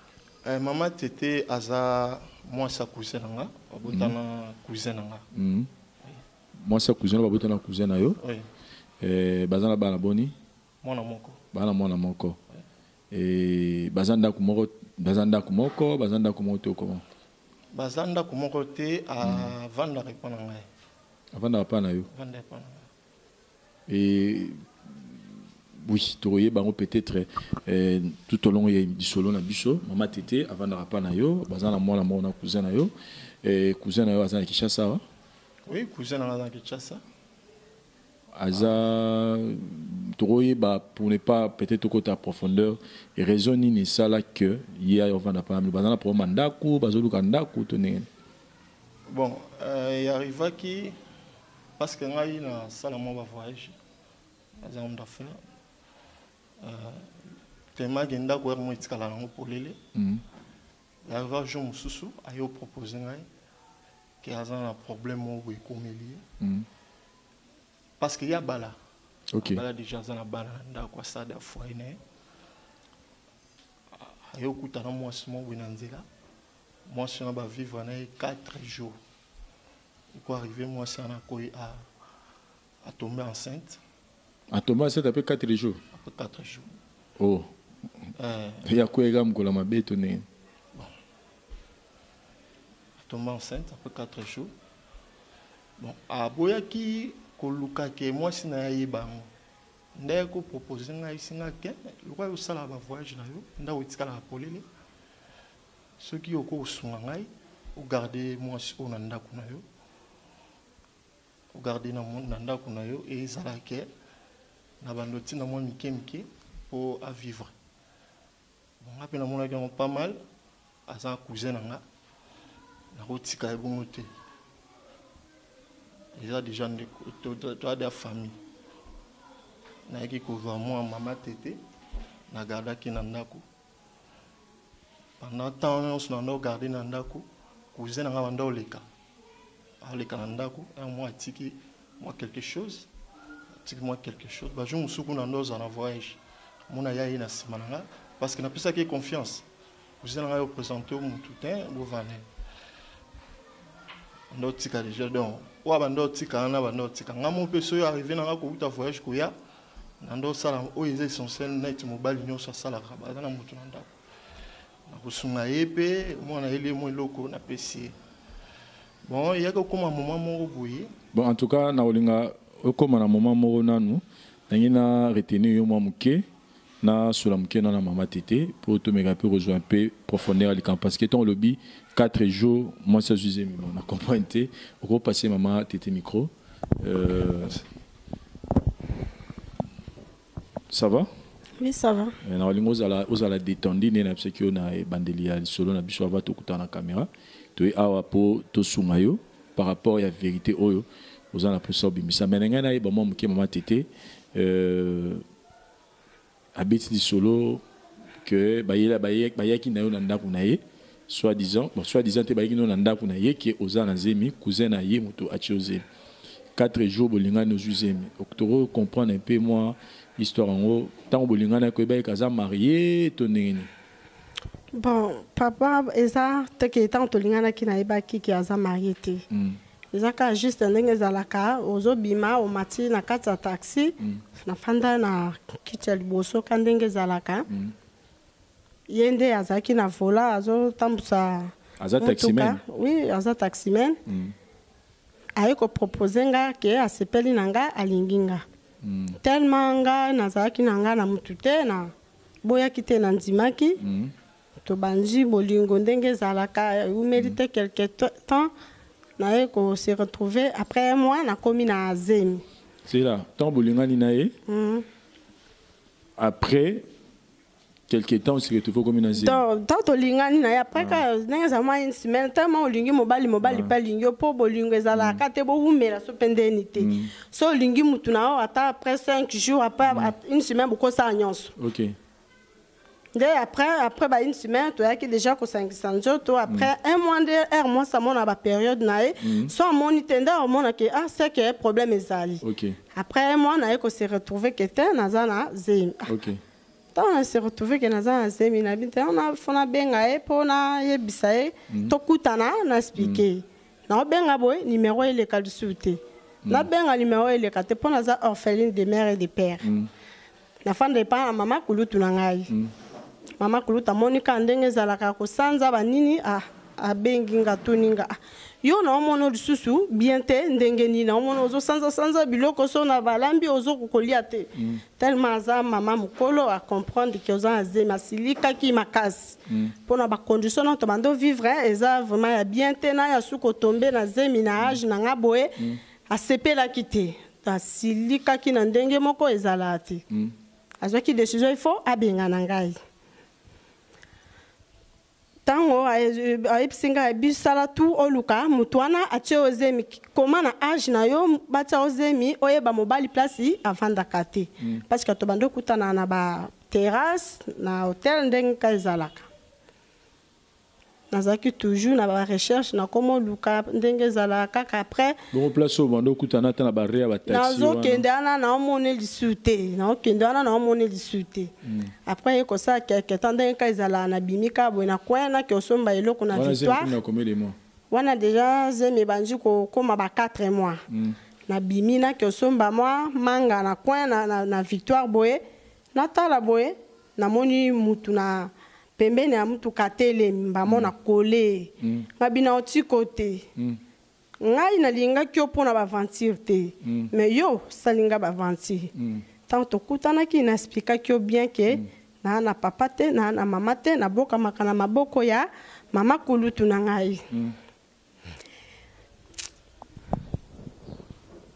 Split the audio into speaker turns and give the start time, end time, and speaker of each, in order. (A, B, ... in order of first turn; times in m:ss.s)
0:00.4-0:05.2 A
0:03.8-0:04.1 B
0:05.3-0:05.7 B
0:06.6-0:08.2 B
0:08.2-0:08.4 A
0:09.0-0:10.3 B
0:10.8-0:11.4 A
0:11.5-0:12.4 B
0:13.1-0:17.0 B
0:17.7-0:20.6 A
0:19.2-0:19.5 B
0:21.3-0:22.1 B
0:22.1-0:22.8 A
0:23.9-0:24.6 B
0:25.8-0:32.9 B
0:33.4-0:35.0 B
0:35.7-0:37.0 A
0:38.4-0:48.0 B
0:49.1-0:51.0 A
0:51.8-0:53.7 A
0:54.6-0:55.4 A
0:56.6-0:57.1 A
0:57.8-0:59.8 A
0:59.9-1:00.2 B
1:01.1-1:03.2 A
1:04.2-1:06.2 A
1:06.4-1:06.6 B
1:08.0-1:08.8 A
1:09.4-1:09.6 B
1:09.4-1:12.0 A
1:14.3-1:16.0 A
1:16.9-1:19.0 A
1:20.1-1:21.8 A
1:22.8-1:23.8 A
1:24.5-1:25.8 B
1:25.9-1:26.7 A
1:27.2-1:27.5 B
1:28.2-1:28.6 A
1:28.6-1:30.2 B
1:33.0-1:34.5 A
1:35.8-1:39.3 A
1:40.0-1:44.6 A
1:46.0-1:49.6 A
1:51.5-1:53.9 A
1:54.8-1:57.5 A
1:58.8-2:00.2 A
2:00.9-2:01.8 A
2:02.9-2:04.1 A
2:06.1-2:08.3 A
2:09.9-2:11.6 A
2:12.3-2:13.4 A
2:15.2-2:18.8 A
2:19.8-2:22.9 A
2:23.6-2:29.4 A
2:30.0-2:32.2 A
2:34.3-2:39.3 A
2:40.0-2:43.9 A
2:44.9-2:48.0 A
2:49.1-2:50.9 A
2:51.1-2:56.2 B
2:56.8-3:06.3 B
3:06.8-3:07.6 B
3:10.7-3:11.1 B
3:11.6-3:12.2 C
3:12.2-3:25.2 B
3:26.6-3:27.6 B
3:28.2-3:35.8 B
3:36.5-3:43.7 B
3:44.7-3:49.2 C
3:49.3-3:49.6 B
3:49.9-3:57.4 C
3:57.5-3:57.7 B
3:58.9-4:04.0 C
4:01.8-4:02.6 B
4:04.1-4:04.3 B
4:05.4-4:08.4 C
4:08.8-4:09.2 B
4:09.2-4:13.8 C
4:13.8-4:14.1 B
4:14.6-4:18.5 C
4:19.2-4:22.4 C
4:22.9-4:24.3 B
4:24.5-4:24.8 C
4:26.2-4:26.8 B
4:27.9-4:29.4 B
4:29.2-4:41.5 C
4:30.7-4:31.0 B
4:33.4-4:33.7 B
4:34.9-4:35.2 B
4:36.8-4:37.1 B
4:39.8-4:40.1 B
4:41.6-4:41.9 B
4:43.1-4:52.4 C
4:46.4-4:46.7 B
4:49.2-4:49.5 B
4:52.4-4:52.8 B
4:52.9-4:56.0 C
4:56.1-4:56.4 B
4:56.9-5:09.6 C
5:03.0-5:03.2 B
5:09.6-5:09.9 B
5:10.6-5:12.5 C
5:13.4-5:35.5 C
5:24.6-5:24.8 B
5:29.5-5:29.7 B
5:36.1-5:40.0 C
5:40.8-5:42.8 C
5:45.4-5:59.2 C
6:01.1-6:05.2 C
6:05.3-6:08.0 B
6:07.2-6:11.5 C
6:11.6-6:11.9 B
6:12.0-6:16.9 C
6:16.3-6:17.6 B
6:17.9-6:20.8 C
6:20.9-6:21.2 B
6:21.5-6:25.4 C
6:25.9-6:33.4 C
6:30.6-6:30.9 B
6:31.8-6:32.1 B
6:34.4-6:38.9 C
6:36.8-6:37.1 B
6:38.9-6:39.2 B
6:39.5-6:47.2 C